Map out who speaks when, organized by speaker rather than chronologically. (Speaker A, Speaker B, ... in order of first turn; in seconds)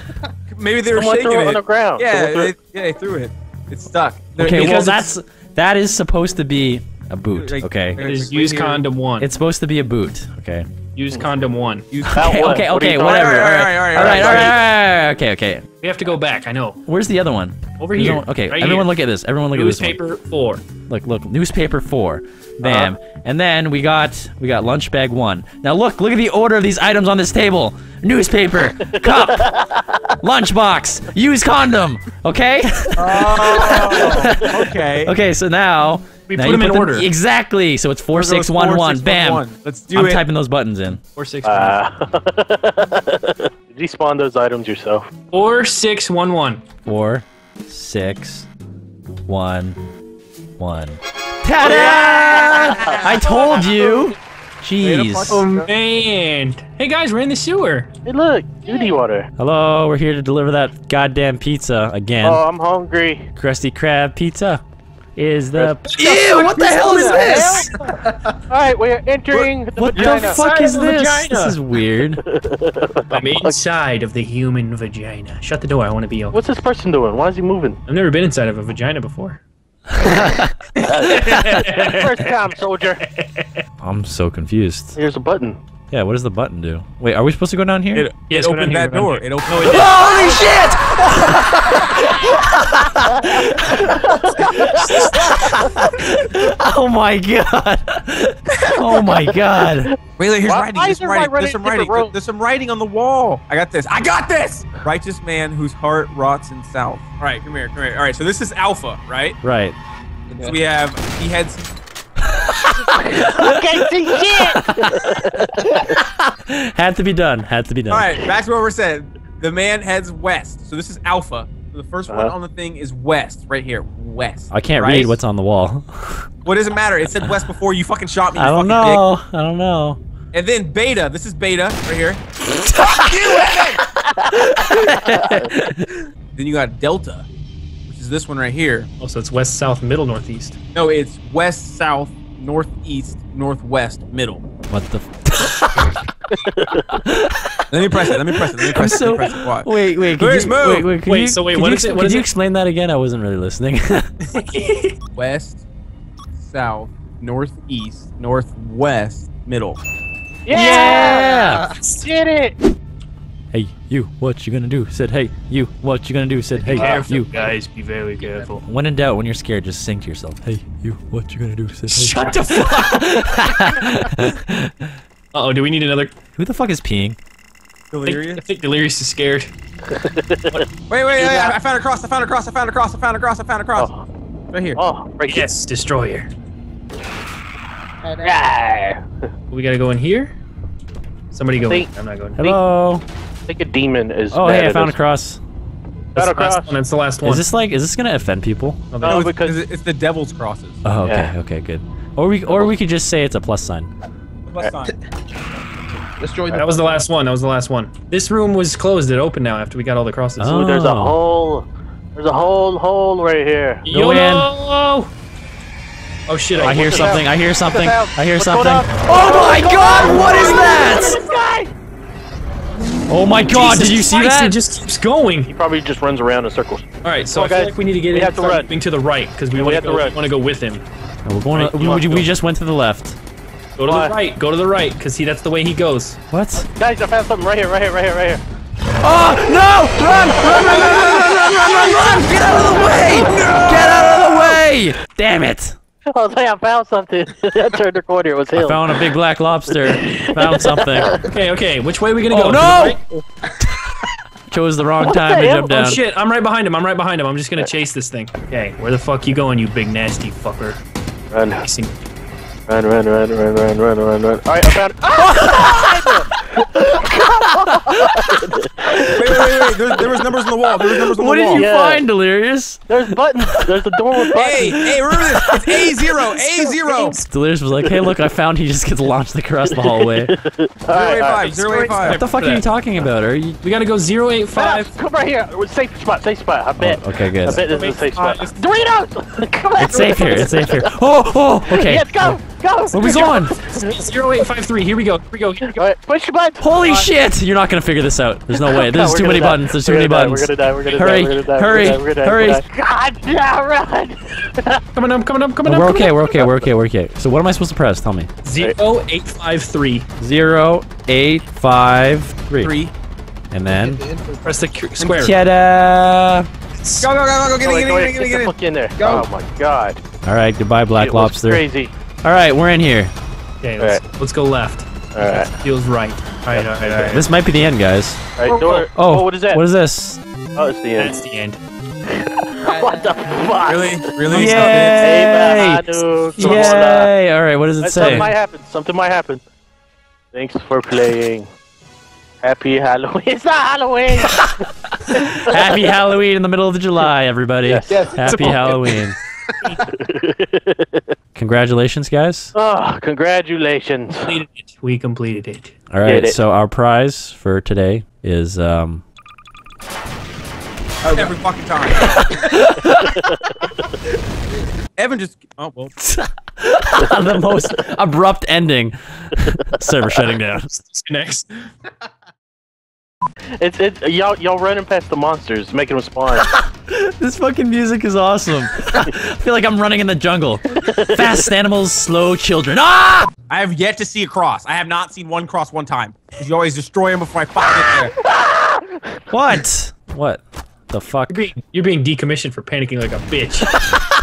Speaker A: 0.5-5.1, 7.4-8.8, 11.9-14.6, 33.0-35.1, 38.1-40.2, 53.0-53.8, 54.8-55.7, 87.9-89.9, 100.2-109.4, 110.4-111.7, 117.9-125.2, 126.4-129.0, 130.3-132.2, 132.7-133.8, 136.3-137.2, 137.9-138.9, 140.7-144.4, 147.7-149.7, 150.2-150.9, 155.1-155.6, 156.4-159.8, 177.9-178.4, 180.9-183.9, 184.5-184.8, 199.0-200.8, 204.4-204.9, 244.3-244.6, 269.1-271.7, 274.4-277.2, 280.9-282.2, 287.6-288.6, 312.6-312.9, 317.0-318.5, 333.6-335.1, 336.4-336.8, 361.0-362.2, 365.0-365.9, 383.5-388.1
Speaker B: 0.9-2.5, 12.1-14.5, 22.6-22.9, 28.9-30.0, 41.4-45.1, 51.6-53.0, 58.0-59.3, 62.2-63.3, 66.9-67.7, 68.5-70.4, 72.2-73.6, 76.3-77.8, 80.8-83.1, 85.0-85.6, 94.1-95.2, 98.5-99.9, 100.4-102.1, 112.8-115.9, 122.1-122.3, 134.7-135.5, 146.3-146.8, 160.5-161.3, 162.0-162.6, 166.7-167.1, 179.9-180.6, 181.2-181.5, 183.8-184.0, 184.8-185.5, 188.2-189.0, 191.6-191.9, 193.5-194.9, 196.1-196.7, 199.0-199.6, 201.0-201.3, 210.5-213.8, 216.6-221.7, 225.5-228.7, 229.5-230.2, 233.8-234.1, 236.6-238.4, 240.7-241.1, 246.1-249.1, 249.7-251.3, 255.0-255.8, 261.3-261.6, 262.7-269.6, 271.5-272.1, 272.9-274.8, 279.7-281.6, 284.6-290.9, 291.7-294.0, 295.6-297.1, 298.5-304.8, 317.6-320.0, 320.9-321.9, 325.1-325.5, 326.5-327.2, 328.4-329.6, 330.6-331.1, 332.1-337.1, 337.8-339.4, 340.3-341.5, 342.4-344.5, 347.7-348.7, 349.7-351.1, 352.6-354.3, 356.0-356.4, 362.9-363.7, 373.6-376.5, 380.8-381.3, 388.3-389.0
Speaker C: 4.4-8.1, 9.2-10.7, 12.1-15.6, 16.9-20.0, 20.9-29.5, 30.2-41.0, 46.8-48.5, 49.2-49.8, 50.6-55.4, 59.4-62.4, 63.4-64.6, 65.2-67.9, 69.8-72.2, 79.9-81.7, 83.8-85.0, 85.9-88.1, 89.6-99.9, 109.4-109.8, 112.3-118.2, 124.5-126.3, 128.3-130.0, 132.6-135.9, 144.7-146.0, 147.0-147.5, 148.7-154.1, 160.5-162.1, 163.5-167.3, 168.6-174.7, 176.4-177.2, 192.4-193.0, 194.3-195.4, 197.2-198.8, 200.8-203.9, 210.4-211.2, 213.9-214.5, 216.6-221.2, 223.1-224.6, 231.2-233.2, 236.3-236.7, 239.0-245.8, 248.5-251.2, 252.3-253.0, 253.6-256.0, 265.5-265.8, 268.9-269.5, 271.1-273.7, 274.5-275.9, 276.7-280.3, 282.0-283.6, 286.8-287.7, 289.8-293.5, 296.6-302.6, 305.6-308.3, 310.2-312.7, 313.5-314.0, 315.0-317.1, 320.2-321.6, 322.2-323.1, 327.1-328.2, 328.9-330.2, 334.3-338.3, 344.2-349.2, 351.3-352.5, 355.9-359.0, 362.0-363.2, 366.0-371.0, 376.4-383.3, 389.3-391.4
Speaker D: 8.0-9.3, 10.9-11.9, 15.8-16.8, 17.8-18.9, 19.5-20.6, 36.3-37.1, 41.1-41.8, 45.3-46.6, 55.3-57.9, 65.5-68.0, 70.0-71.6, 73.1-76.4, 77.9-79.4, 80.8-83.6, 88.3-90.2, 139.0-140.6, 150.2-150.5, 151.0-152.3, 154.3-154.9, 166.8-168.7, 171.9-173.0, 175.3-176.1, 178.1-179.5, 185.3-186.3, 189.5-190.3, 191.3-192.6, 196.2-197.5, 198.9-199.2, 206.5-210.6, 213.8-215.1, 216.3-217.2, 223.4-225.5, 227.0-230.8, 231.5-232.3, 233.8-236.2, 251.2-253.0, 255.5-260.8, 261.5-261.9, 281.6-282.6, 283.6-284.9, 293.0-295.8, 304.9-306.2, 308.4-310.1, 314.4-315.3, 323.6-327.3, 328.5-328.9, 330.9-331.6, 354.2-355.8, 371.1-371.4, 391.3-393.8
Speaker E: 161.1-161.5, 188.1-188.4, 206.2-206.9, 313.8-314.6, 319.0-319.3, 347.9-348.9